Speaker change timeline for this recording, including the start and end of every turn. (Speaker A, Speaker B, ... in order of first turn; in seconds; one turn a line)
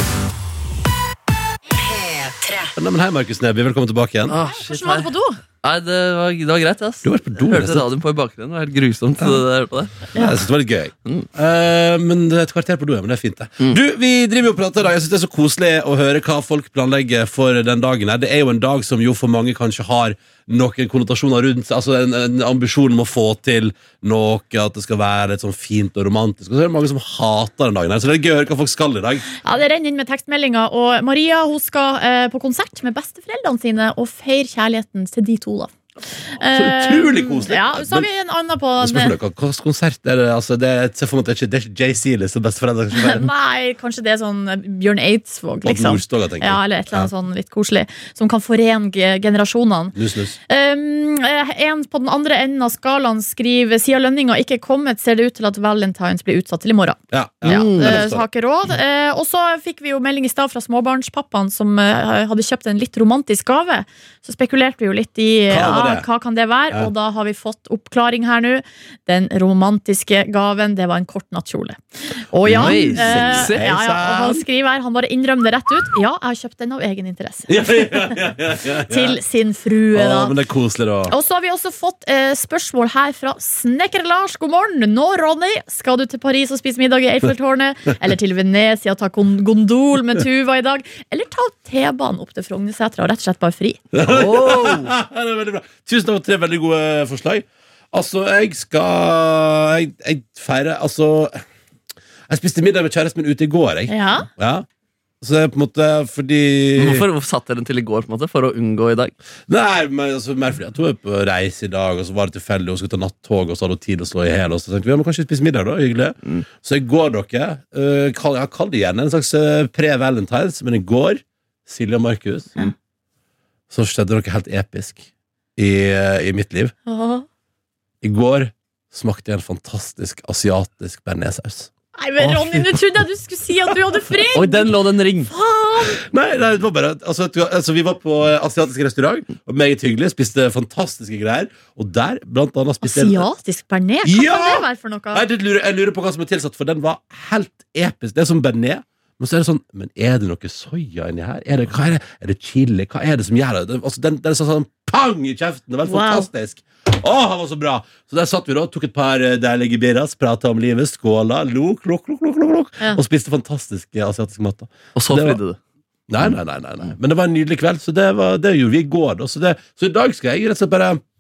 Speaker A: 2.8-4.3
Speaker B: 4.3-10.1
Speaker C: 4.5-5.4
Speaker A: 7.0-7.9
Speaker A: 9.2-9.4
Speaker A: 10.1-29.3
Speaker C: 29.4-35.7
Speaker C: 36.4-39.2
Speaker A: 36.5-38.1
Speaker A: 38.8-43.3
Speaker C: 42.9-50.0
Speaker A: 45.6-47.1
Speaker A: 50.0-50.4
Speaker C: 50.5-78.2
Speaker A: 57.1-58.2
Speaker B: 57.5-58.0
Speaker A: 65.5-66.1
Speaker A: 72.4-74.4
Speaker B: 72.5-73.6
Speaker A: 77.5-79.2
Speaker C: 78.9-80.4
Speaker A: 79.9-81.1
Speaker C: 81.1-93.8
Speaker A: 93.9-101.4
Speaker B: 94.1-94.9
Speaker A: 102.3-104.7
Speaker C: 103.9-104.3
Speaker A: 105.2-107.1
Speaker B: 106.8-109.1
Speaker A: 109.5-122.7
Speaker A: 123.7-126.7
Speaker C: 126.9-127.2
Speaker A: 128.0-131.7
Speaker C: 132.0-134.7
Speaker B: 132.2-132.7
Speaker B: 134.3-135.3
Speaker C: 135.2-136.0
Speaker A: 135.9-143.3
Speaker C: 142.8-145.2
Speaker A: 144.0-165.4
Speaker C: 155.9-156.3
Speaker B: 165.0-165.6
Speaker A: 166.1-171.0